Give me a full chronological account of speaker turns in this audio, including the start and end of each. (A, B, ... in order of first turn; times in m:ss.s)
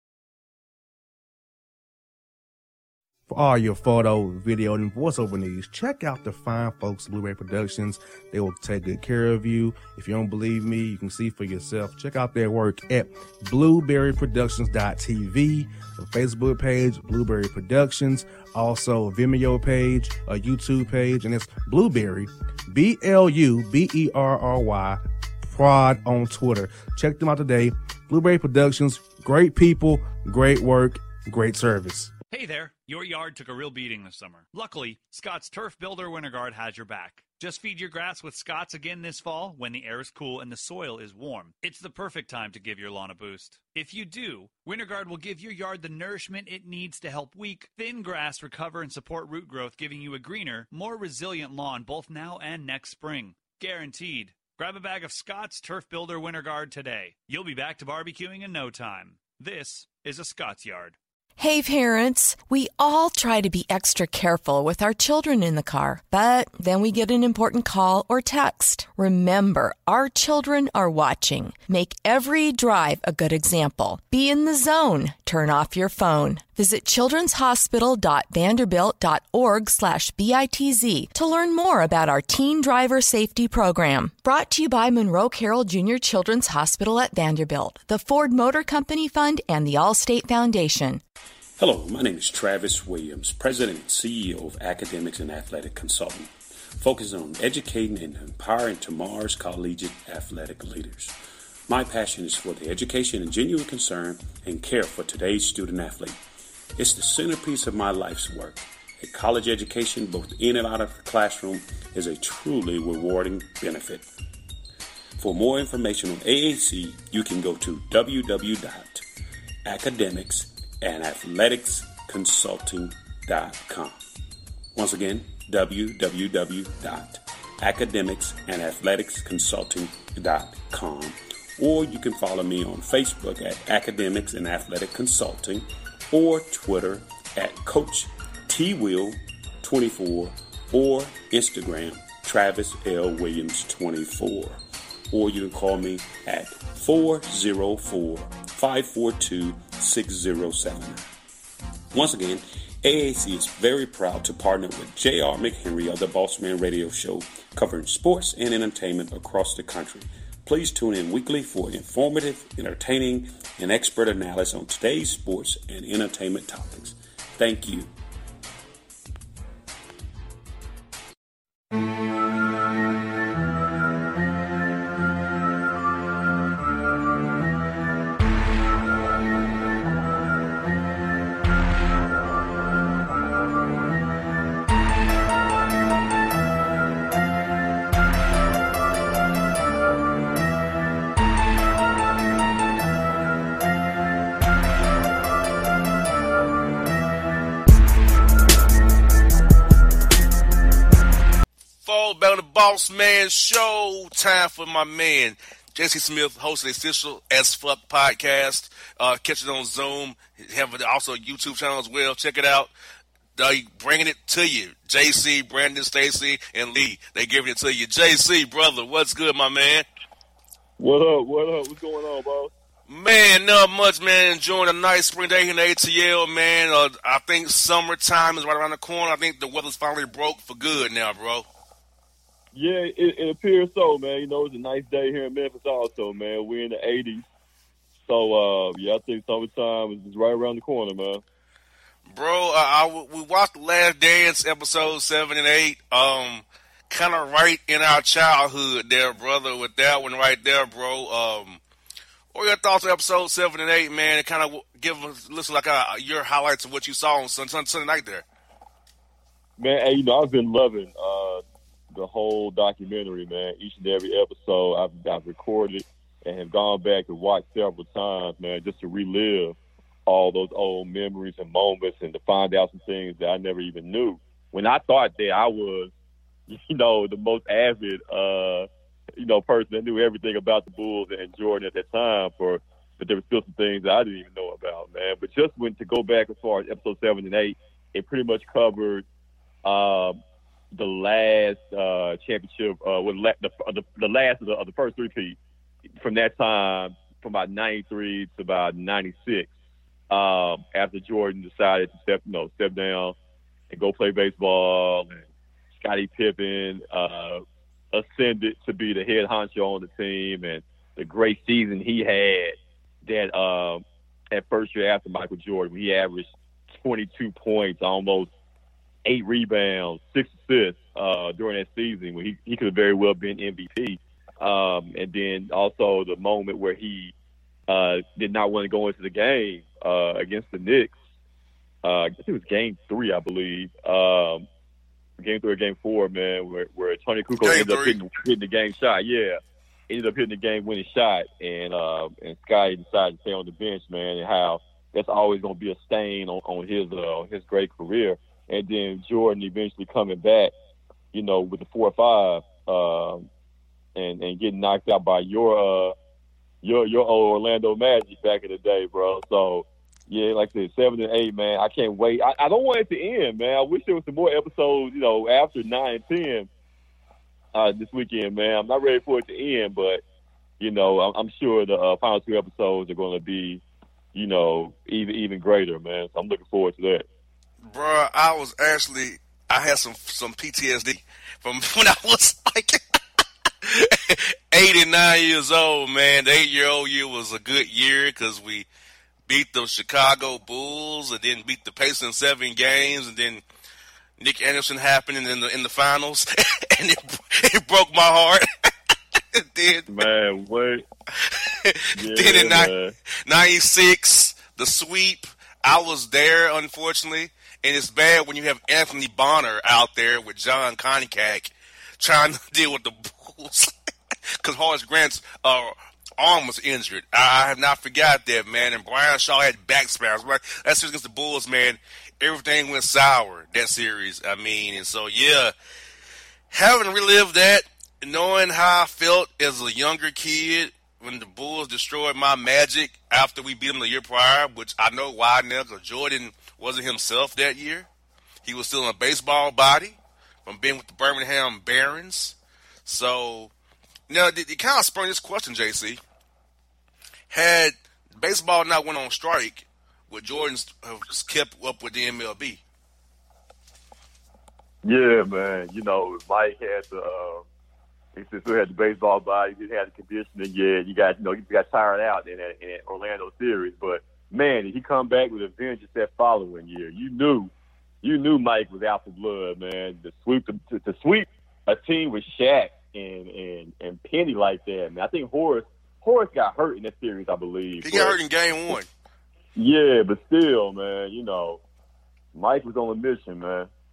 0:03.3-0:32.1 A
0:32.3-1:01.0 B
1:01.4-1:31.0 C
1:31.6-1:41.1 D
1:41.7-1:46.2 D
1:46.8-1:54.1 D
1:55.2-1:59.0 D
1:59.7-2:04.0 D
2:04.8-2:24.6 D
2:25.1-2:31.1 D
2:31.9-2:47.9 D
3:21.8-3:32.7 E
3:33.4-3:39.9 E
3:40.8-3:42.5 F
3:42.9-3:51.5 E
3:52.5-3:57.3 F
3:58.0-4:01.2 F
4:02.1-4:11.6 E
4:12.3-4:18.2 E
4:19.6-4:29.6 F
4:30.1-4:35.9 F
4:36.5-4:49.0 F
4:49.6-4:50.2 F
4:50.7-4:55.4 F
4:56.0-4:59.5 F
5:00.1-5:03.2 F
5:03.7-5:05.2 F
5:05.8-5:07.4 F
5:07.9-5:18.3 F
5:19.0-5:27.1 F
5:27.7-5:31.0 F
5:31.8-5:34.5 F
5:35.2-5:50.5 F
5:37.4-5:38.0 E
5:51.1-5:53.3 F
5:54.0-5:55.9 F
5:56.6-6:06.5 F
6:07.5-6:10.0 F
6:10.6-6:13.6 F
6:14.1-6:17.1 F
6:17.6-6:22.8 E
6:23.7-6:28.7 E
6:29.3-6:33.4 E
6:34.2-6:38.4 E
6:39.3-6:40.0 E
6:39.9-6:40.8 F
6:41.6-6:42.7 E
6:42.0-6:42.9 F
6:43.3-6:53.7 E
6:54.4-7:05.5 E
7:06.5-7:17.9 E
7:18.4-7:23.5 E
7:24.1-7:26.0 E
7:27.3-7:32.6 E
7:34.8-7:37.4 F
7:38.2-7:47.5 F
7:48.0-7:58.2 F
7:57.8-7:58.9 E
7:59.6-8:01.6 F
8:02.3-8:03.7 F